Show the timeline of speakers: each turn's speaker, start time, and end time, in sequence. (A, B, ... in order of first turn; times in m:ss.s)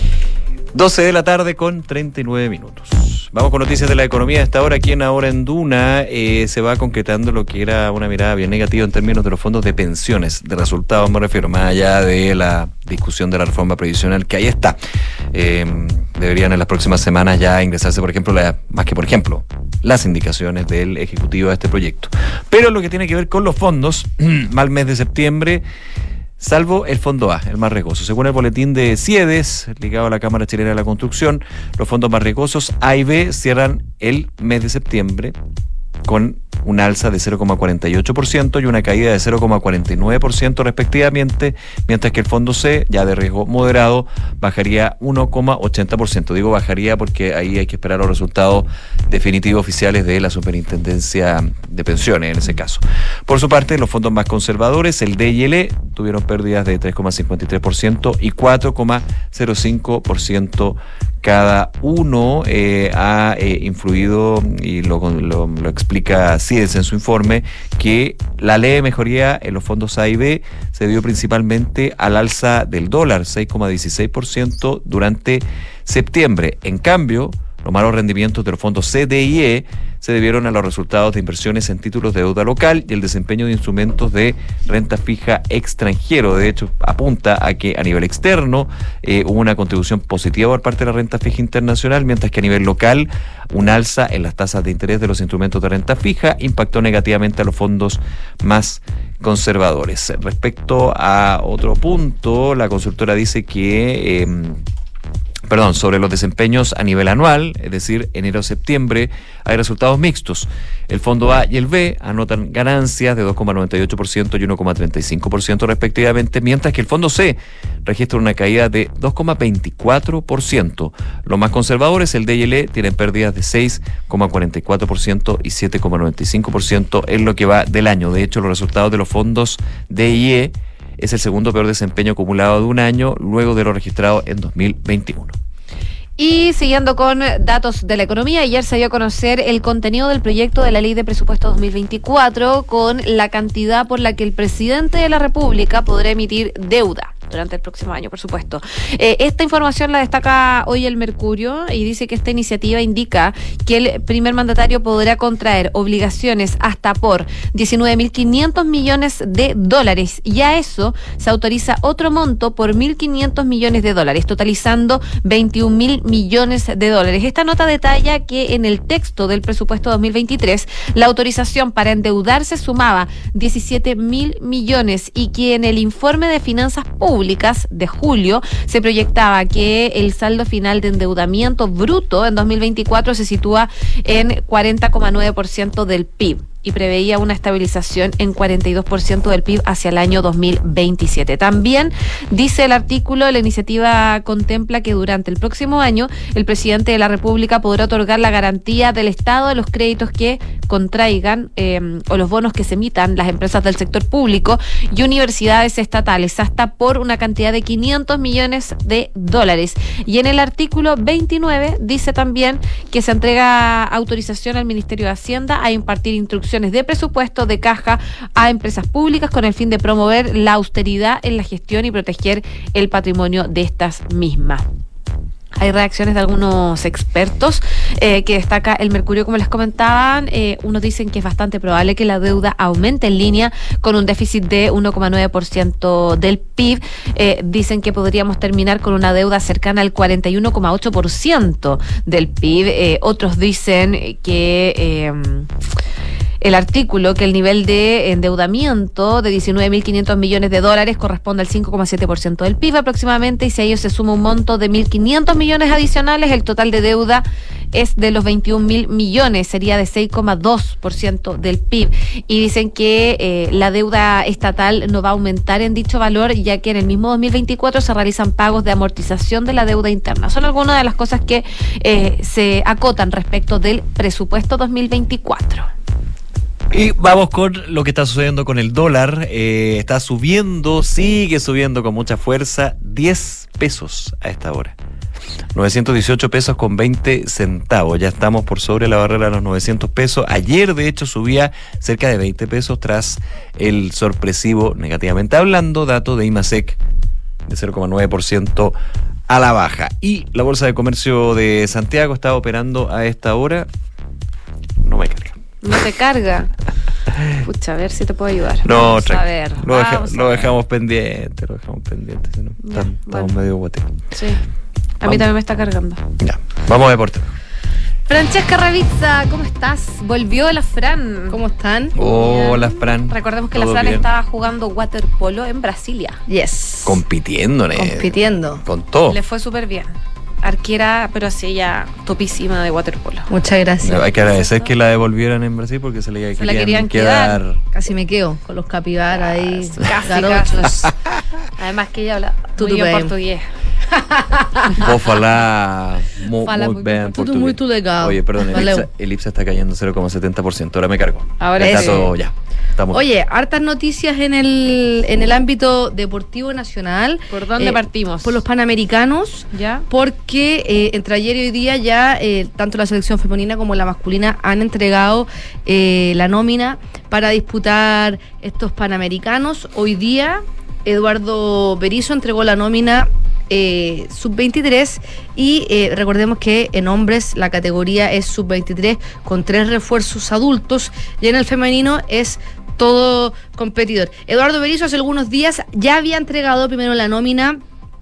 0:00.7-0:14.8 A
0:15.3-0:25.6 A
0:26.4-0:35.3 A
0:36.0-1:44.6 A
1:45.4-2:15.4 A
2:16.2-3:44.6 B
3:45.6-4:05.5 B
4:06.4-4:35.7 B
4:36.7-4:44.8 A
4:45.5-4:56.8 A
4:57.5-4:58.8 A
4:59.3-5:03.7 A
5:04.8-5:05.4 A
5:05.6-5:06.5 B
5:07.4-5:10.5 B
5:08.6-5:13.9 A
5:12.6-5:13.3 B
5:14.1-5:14.4 B
5:15.0-5:16.0 B
5:16.2-5:17.3 A
5:18.1-5:21.4 B
5:21.3-5:21.9 C
5:21.9-5:24.0 A
5:22.0-5:26.2 B
5:26.3-5:27.0 C
5:26.8-5:29.2 A
5:27.7-5:28.6 C
5:29.1-5:33.3 B
5:33.3-5:34.1 C
5:33.8-5:37.6 A
5:34.2-5:34.7 B
5:36.4-5:37.4 B
5:37.7-5:40.9 C
5:39.2-5:40.7 B
5:40.6-5:40.9 A
5:41.6-5:43.5 B
5:42.6-5:43.1 C
5:44.2-5:44.8 C
5:44.8-5:53.0 A
5:46.5-5:48.9 C
5:46.5-5:46.8 B
5:51.4-5:52.1 B
5:51.6-5:52.0 C
5:52.9-6:27.6 C
5:57.3-5:58.4 B
5:59.5-5:59.8 B